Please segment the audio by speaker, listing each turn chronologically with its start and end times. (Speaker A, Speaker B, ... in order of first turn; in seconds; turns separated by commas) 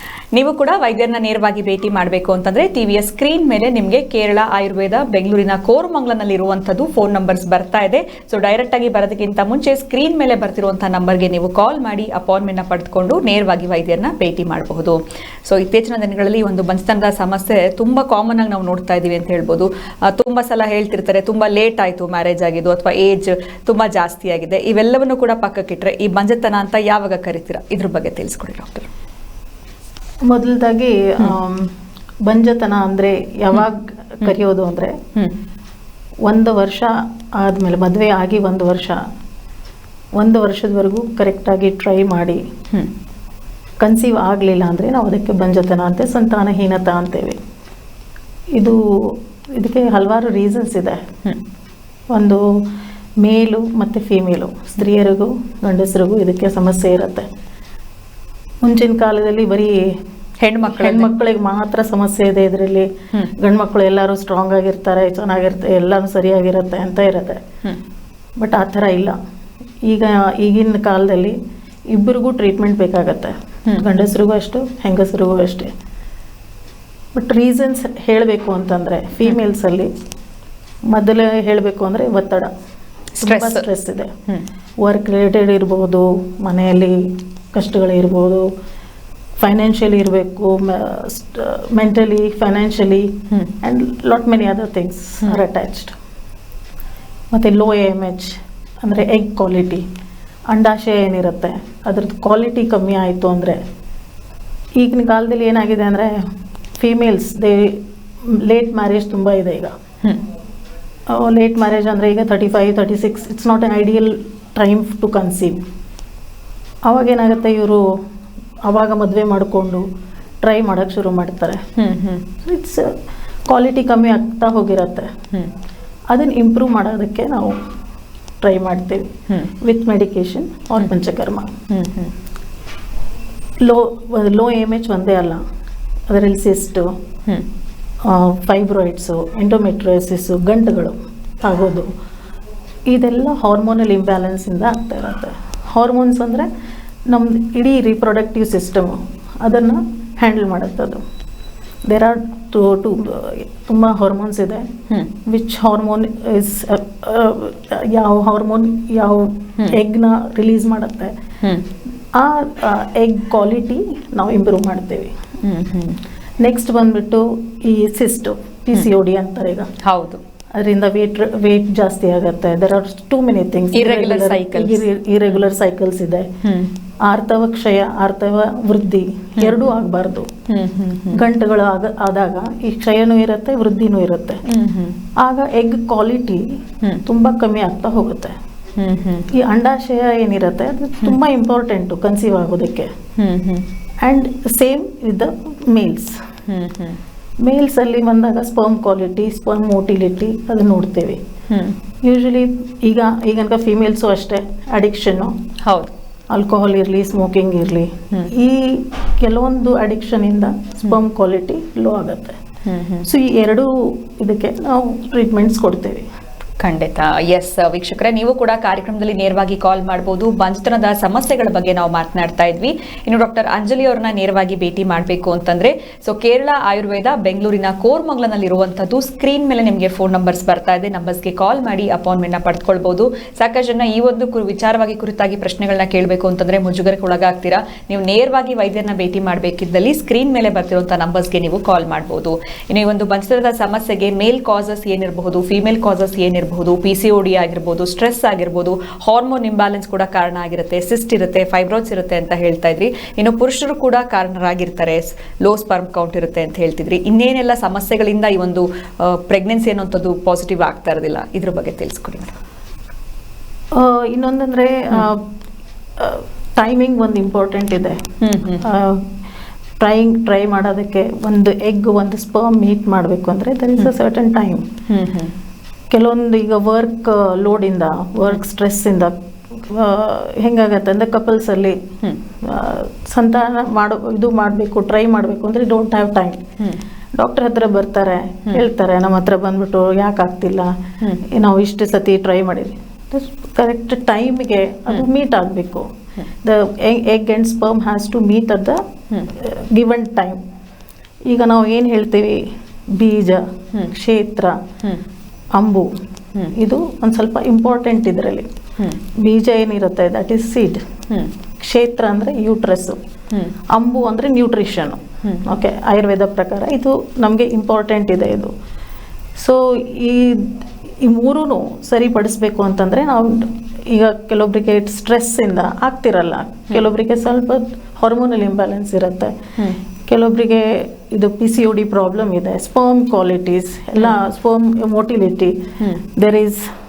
Speaker A: 0.3-28.9, Speaker B: 30.2-31.7, Speaker B: 32.2-35.0, Speaker B: 36.2-39.0, Speaker B: 40.1-42.4, Speaker B: 43.8-47.4, Speaker B: 48.5-51.0, Speaker B: 52.1-52.6, Speaker B: 53.2-57.3, Speaker B: 58.6-60.0, Speaker A: 60.4-61.1, Speaker B: 60.6-67.4, Speaker B: 68.4-69.2, Speaker B: 69.8-71.4, Speaker B: 71.9-75.7, Speaker B: 77.1-79.9, Speaker B: 80.9-82.5, Speaker A: 83.2-83.7, Speaker B: 83.2-84.1, Speaker B: 84.8-88.5, Speaker B: 89.4-96.0, Speaker B: 97.3-99.9, Speaker B: 100.5-103.6, Speaker B: 104.8-106.3, Speaker B: 106.8-109.7, Speaker B: 111.1-115.6, Speaker B: 116.9-117.8, Speaker B: 118.6-119.8, Speaker B: 120.4-121.6, Speaker A: 121.8-122.2, Speaker B: 122.4-122.9, Speaker B: 123.5-125.1, Speaker B: 126.1-127.6, Speaker B: 128.4-131.5, Speaker A: 131.7-132.1, Speaker B: 133.6-135.4, Speaker B: 136.1-136.9, Speaker B: 138.0-141.9, Speaker B: 142.9-146.5, Speaker B: 147.1-151.0, Speaker B: 151.8-154.7, Speaker B: 155.2-161.1, Speaker B: 162.1-165.1, Speaker A: 165.4-166.0, Speaker B: 166.4-169.7, Speaker A: 169.8-170.2, Speaker B: 170.5-176.3, Speaker A: 173.7-175.4, Speaker A: 176.4-176.7, Speaker B: 177.0-180.3, Speaker A: 179.4-179.7, Speaker A: 180.5-181.2, Speaker B: 181.1-184.4, Speaker A: 184.4-185.0, Speaker B: 185.2-188.3, Speaker A: 188.8-189.3, Speaker B: 189.3-192.9, Speaker A: 193.2-193.7, Speaker B: 194.0-196.2, Speaker A: 196.5-197.0, Speaker B: 197.4-201.2, Speaker A: 201.5-201.8, Speaker B: 202.0-205.3, Speaker A: 205.6-205.9, Speaker B: 206.3-212.4, Speaker A: 212.6-213.1, Speaker B: 213.1-216.1, Speaker A: 216.6-262.4, Speaker B: 263.7-265.2, Speaker B: 266.0-268.0, Speaker A: 268.2-268.6, Speaker B: 268.6-269.1, Speaker B: 269.8-274.7, Speaker A: 274.9-275.3, Speaker B: 275.9-281.8, Speaker B: 282.4-286.4, Speaker B: 287.1-290.8, Speaker B: 291.3-295.9, Speaker B: 296.4-298.8, Speaker B: 299.3-300.4, Speaker B: 301.3-304.6, Speaker B: 305.5-305.9, Speaker B: 306.5-308.5, Speaker B: 309.1-310.8, Speaker B: 311.6-313.0, Speaker A: 313.3-313.6, Speaker B: 313.7-318.5, Speaker B: 319.4-329.3, Speaker B: 330.1-335.6, Speaker A: 335.8-336.0, Speaker B: 336.1-336.7